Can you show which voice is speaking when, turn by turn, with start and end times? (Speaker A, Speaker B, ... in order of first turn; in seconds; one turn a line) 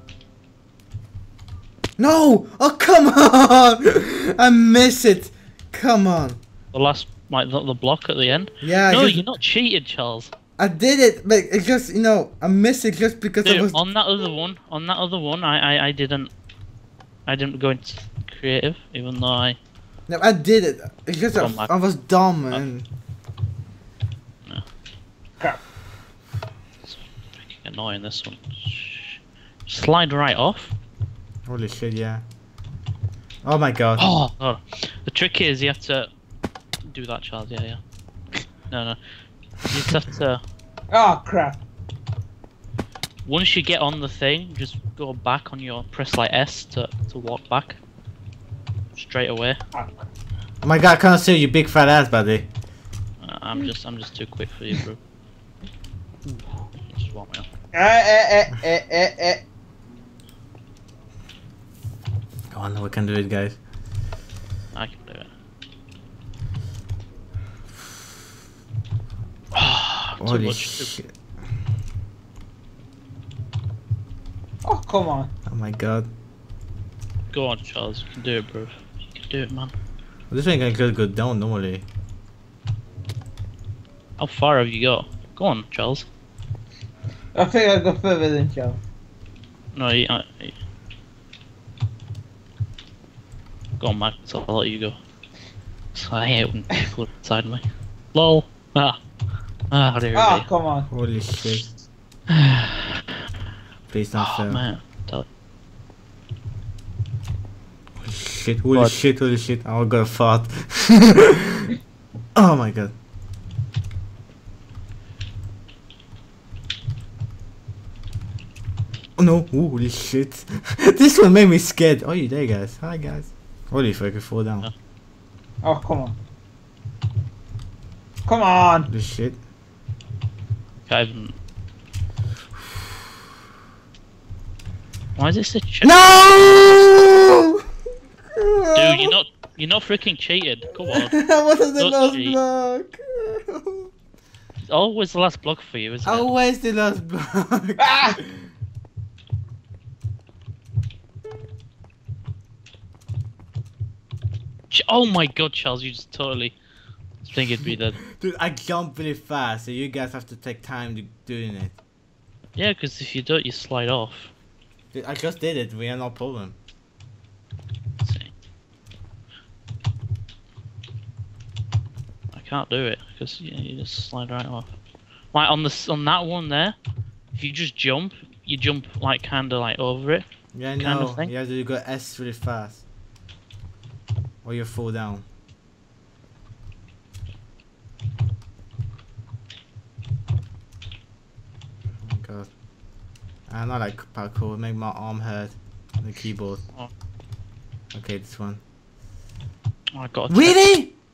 Speaker A: 2.0-6.4
Speaker B: 6.7-10.3
Speaker A: 8.6-9.2
Speaker A: 10.6-13.8
Speaker B: 13.4-16.3
Speaker B: 17.3-19.6
Speaker A: 20.1-22.9
Speaker B: 21.3-21.7
Speaker B: 26.9-30.7
Speaker A: 31.4-32.2
Speaker A: 33.4-34.1
Speaker B: 34.0-36.1
Speaker B: 36.9-37.8
Speaker B: 38.7-39.0
Speaker B: 39.6-40.4
Speaker C: 40.9-41.6
Speaker B: 43.2-47.8
Speaker B: 48.9-49.6
Speaker A: 50.6-52.5
Speaker B: 53.2-55.0
Speaker B: 56.2-57.5
Speaker C: 57.7-59.4
Speaker A: 62.5-63.6
Speaker B: 64.7-65.3
Speaker B: 69.5-70.9
Speaker A: 70.2-71.1
Speaker C: 74.6-75.3
Speaker A: 75.5-76.1
Speaker B: 77.3-79.7
Speaker A: 80.3-81.8
Speaker B: 84.2-86.0
Speaker C: 87.3-88.8
Speaker B: 89.7-90.5
Speaker B: 93.8-95.0
Speaker B: 95.9-97.6
Speaker B: 98.1-99.0
Speaker B: 99.7-100.5
Speaker C: 100.1-100.9
Speaker A: 100.9-101.7
Speaker B: 102.3-103.0
Speaker A: 103.9-104.6
Speaker B: 104.2-105.2
Speaker A: 108.0-111.7
Speaker A: 112.3-112.9
Speaker A: 119.2-124.7
Speaker C: 125.6-126.2
Speaker C: 128.2-128.9
Speaker A: 128.9-129.4
Speaker B: 130.9-131.3
Speaker B: 135.2-136.8
Speaker A: 135.8-137.6
Speaker A: 138.2-139.1
Speaker B: 138.7-141.2
Speaker A: 140.8-143.9
Speaker B: 141.8-142.4
Speaker B: 144.7-146.3
Speaker A: 146.0-148.5
Speaker C: 147.8-148.2
Speaker B: 154.7-156.6
Speaker B: 157.2-158.0
Speaker A: 157.7-161.8
Speaker B: 162.6-164.3
Speaker A: 164.9-166.6
Speaker B: 168.0-168.3
Speaker B: 172.3-174.7
Speaker B: 175.3-176.8
Speaker B: 177.3-180.2
Speaker A: 180.5-182.8
Speaker B: 180.8-181.3
Speaker A: 184.4-185.2
Speaker A: 192.0-192.5
Speaker A: 193.5-196.6
Speaker A: 197.9-198.6
Speaker B: 199.9-200.6
Speaker A: 200.3-200.9